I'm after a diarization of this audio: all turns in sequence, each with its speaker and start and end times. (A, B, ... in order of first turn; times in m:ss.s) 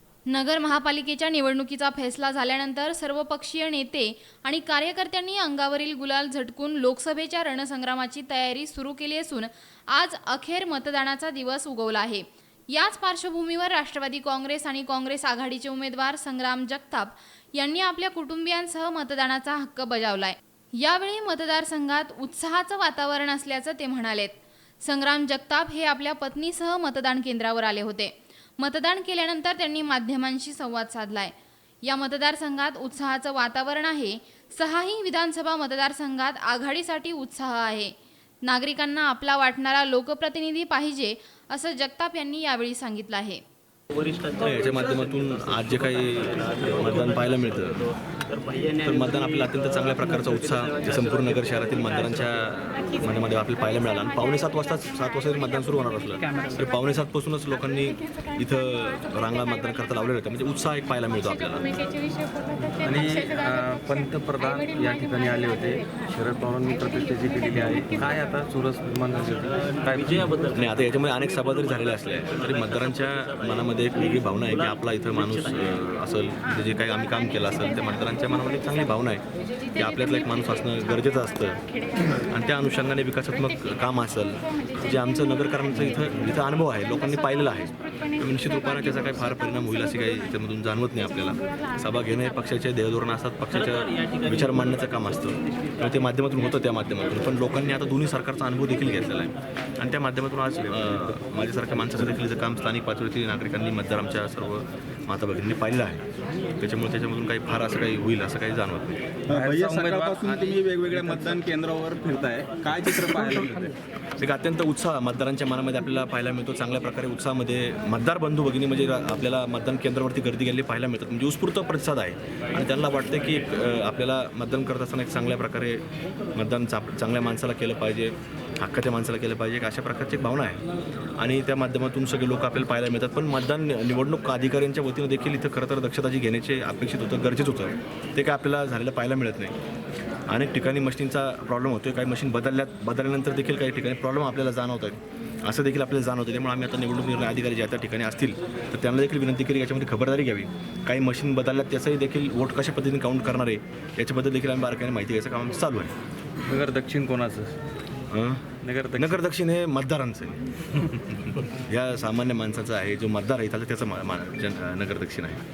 0:00.3-0:31.3 A
0:31.8-0:37.9 A
0:38.4-0:43.4 A
0:44.4-0:47.9 B
0:48.8-1:01.7 B
1:02.7-1:10.5 C
1:10.5-1:19.2 B
1:19.7-1:21.6 B
1:22.1-1:46.0 B
1:46.6-1:49.1 B
1:49.3-1:51.3 C
1:49.3-1:53.7 D
1:54.2-2:05.8 B
2:06.4-2:10.6 B
2:11.2-2:19.6 B
2:20.3-2:35.9 B
2:36.5-2:37.6 C
2:38.1-2:45.4 B
2:38.6-2:39.2 C